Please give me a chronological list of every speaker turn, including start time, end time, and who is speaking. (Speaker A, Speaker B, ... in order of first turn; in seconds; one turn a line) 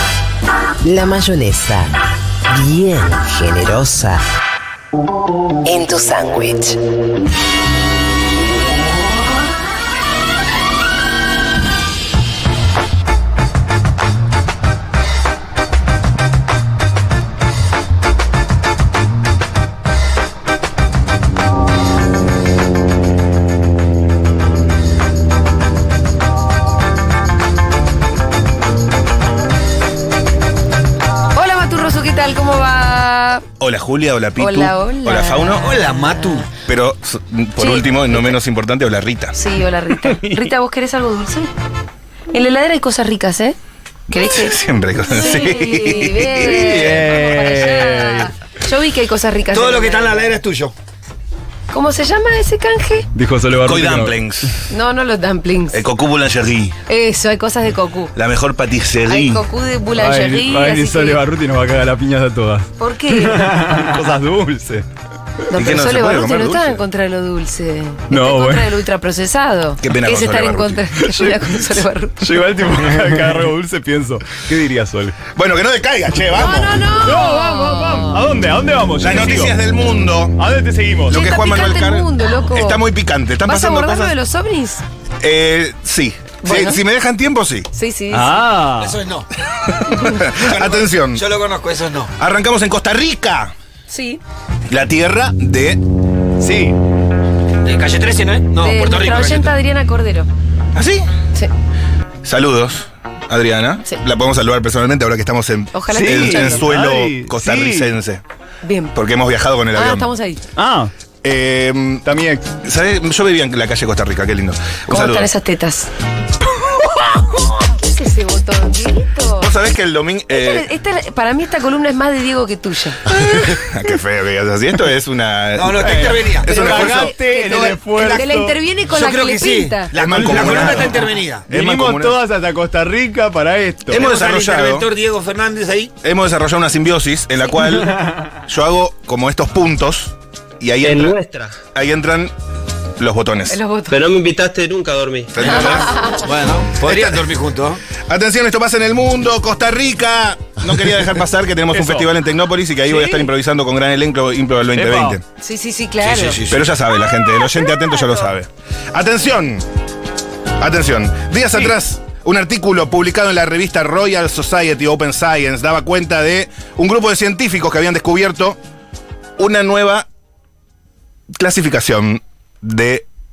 Speaker A: 0.8-1.8
Speaker A: 2.5-4.1
Speaker B: 31.4-33.5
Speaker C: 33.6-35.7
Speaker B: 34.4-35.7
Speaker D: 35.6-36.5
Speaker C: 36.6-39.4
Speaker B: 37.6-38.3
Speaker B: 39.4-41.5
Speaker B: 42.3-43.6
Speaker B: 44.1-50.3
Speaker C: 44.2-47.0
Speaker E: 46.5-48.3
Speaker D: 49.5-50.8
Speaker B: 51.7-53.1
Speaker E: 53.1-54.2
Speaker C: 53.6-54.6
Speaker B: 54.7-55.9
Speaker C: 55.7-56.8
Speaker B: 56.9-58.1
Speaker C: 58.1-59.4
Speaker B: 59.1-61.2
Speaker E: 60.0-64.8
Speaker B: 62.8-63.5
Speaker B: 65.5-72.2
Speaker C: 65.5-66.8
Speaker E: 68.1-68.7
Speaker C: 69.8-70.9
Speaker E: 71.0-71.3
Speaker E: 72.2-75.2
Speaker C: 75.3-76.9
Speaker B: 76.3-78.2
Speaker E: 77.0-79.5
Speaker C: 79.0-80.4
Speaker E: 80.4-81.2
Speaker C: 81.1-84.2
Speaker B: 81.1-82.8
Speaker B: 83.5-84.8
Speaker C: 85.2-87.7
Speaker B: 86.4-86.8
Speaker B: 87.7-88.5
Speaker E: 88.1-89.0
Speaker D: 88.8-89.3
Speaker C: 89.5-91.2
Speaker D: 90.3-92.1
Speaker C: 92.2-93.5
Speaker B: 93.9-94.2
Speaker C: 94.7-95.8
Speaker E: 96.4-96.8
Speaker D: 97.6-99.5
Speaker B: 98.6-100.3
Speaker C: 100.8-101.1
Speaker C: 102.2-108.2
Speaker B: 105.7-106.7
Speaker E: 105.9-107.9
Speaker B: 108.6-108.9
Speaker C: 108.9-110.1
Speaker B: 109.7-110.4
Speaker E: 110.6-110.9
Speaker C: 111.2-112.1
Speaker E: 112.1-112.5
Speaker C: 112.6-115.3
Speaker B: 114.9-115.9
Speaker B: 116.8-119.5
Speaker C: 119.4-120.7
Speaker B: 120.3-123.1
Speaker C: 123.4-127.2
Speaker D: 125.6-128.3
Speaker E: 125.8-128.6
Speaker B: 126.5-130.8
Speaker D: 128.9-131.5
Speaker C: 129.9-132.2
Speaker E: 130.4-130.9
Speaker E: 131.5-134.1
Speaker D: 133.9-135.9
Speaker C: 134.0-134.9
Speaker C: 136.0-141.2
Speaker F: 140.8-141.6
Speaker C: 141.7-142.3
Speaker C: 143.0-143.6
Speaker B: 143.5-144.0
Speaker F: 143.9-145.4
Speaker C: 145.3-146.1
Speaker B: 145.4-146.3
Speaker D: 146.2-147.8
Speaker C: 146.8-147.3
Speaker C: 148.1-155.2
Speaker E: 151.7-152.1
Speaker E: 154.7-155.2
Speaker B: 155.4-156.4
Speaker D: 156.0-156.7
Speaker C: 156.5-159.7
Speaker C: 160.6-168.6
Speaker C: 169.4-170.1
Speaker C: 171.3-173.1